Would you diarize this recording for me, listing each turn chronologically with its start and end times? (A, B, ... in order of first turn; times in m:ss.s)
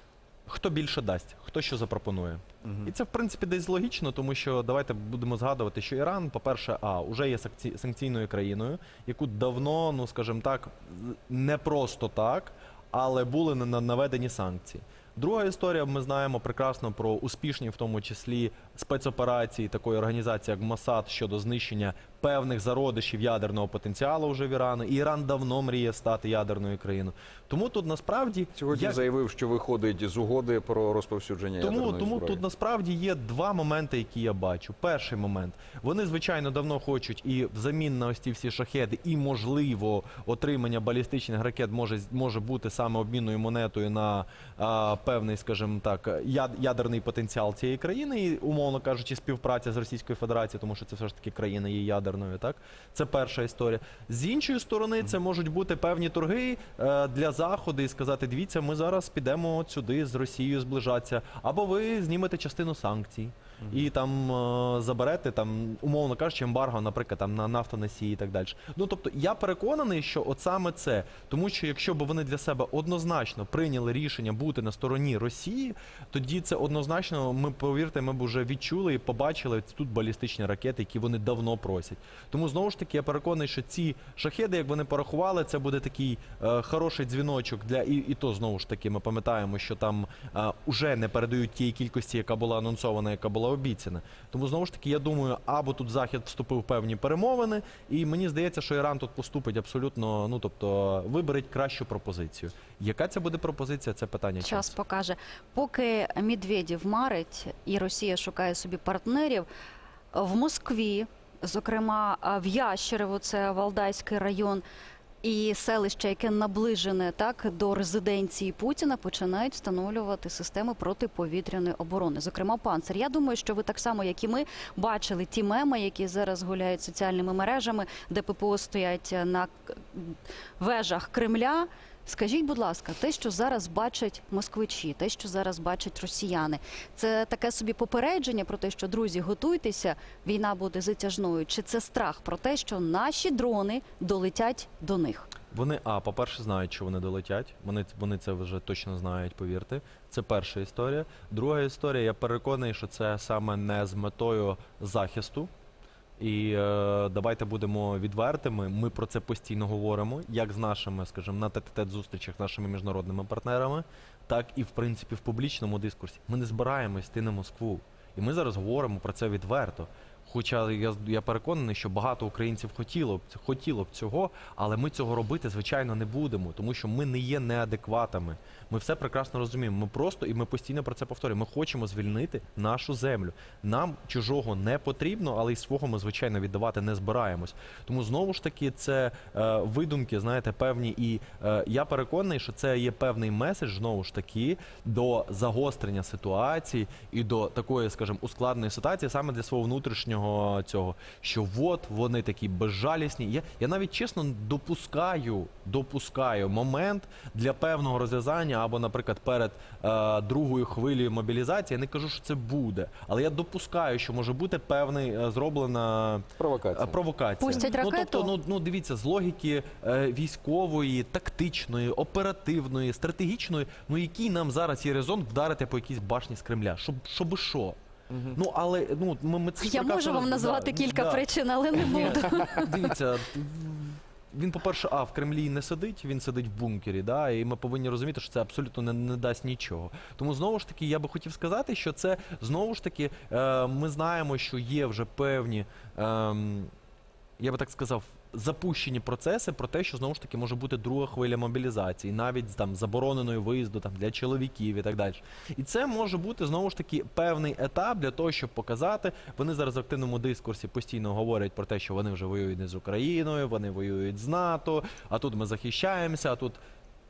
0:00.5-0:29.0 A
0:02.6-0:02.9 B
0:28.6-0:32.4 B
0:31.6-1:44.7 A
1:44.4-1:49.5 C
1:50.1-1:54.6 C
1:55.2-2:25.3 C
2:25.5-2:35.5 A
2:36.2-3:47.8 A
3:36.4-3:37.0 B
3:37.4-3:38.3 C
3:48.1-3:48.4 B
3:48.3-4:06.7 A
3:49.6-3:52.8 C
4:07.4-4:26.6 A